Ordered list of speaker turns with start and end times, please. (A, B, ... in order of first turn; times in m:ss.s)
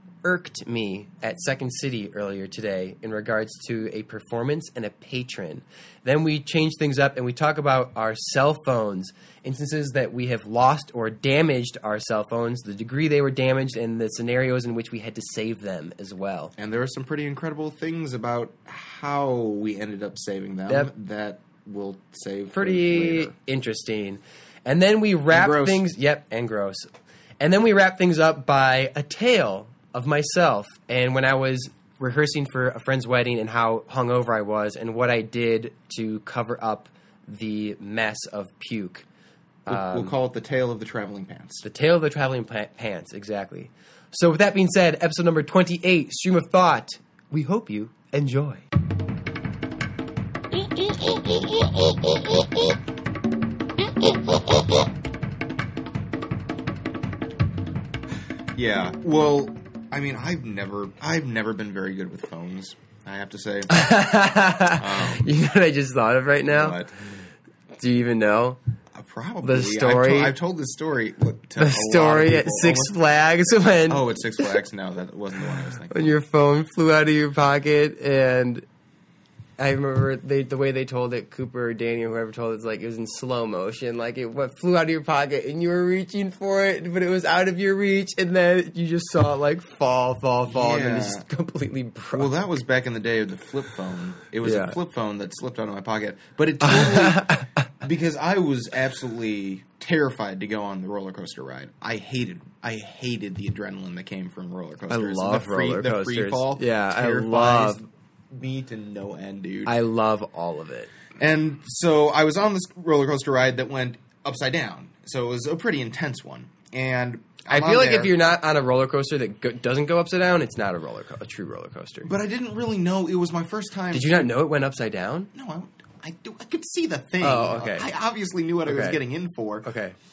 0:00.2-0:16.5 A
0:16.6-0:23.3 B
0:22.5-0:26.9 A
0:25.3-0:25.9 B
0:27.4-0:39.1 A
0:39.7-0:40.2 A
0:39.7-0:41.6 B
0:41.6-0:48.7 A
0:58.6-1:03.7 B
1:03.7-1:06.8 A
1:04.7-1:05.3 B
1:06.4-1:06.9 B
1:07.8-1:08.6 A
1:08.9-1:13.0 B
1:09.4-1:10.3 A
1:11.6-1:14.5 A
1:13.9-1:16.2 B
1:15.7-1:18.7 A
1:19.6-1:32.3 A
1:30.5-1:31.3 B
1:32.1-1:49.8 B
1:34.4-1:34.8 A
1:36.6-1:37.7 A
1:44.9-1:47.8 A
1:49.6-1:50.9 A
1:51.2-1:58.2 B
1:57.5-2:02.1 A
2:02.0-2:04.3 B
2:03.9-2:05.3 A
2:05.3-2:09.7 B
2:07.2-2:07.9 A
2:08.6-2:09.0 A
2:09.6-2:10.0 A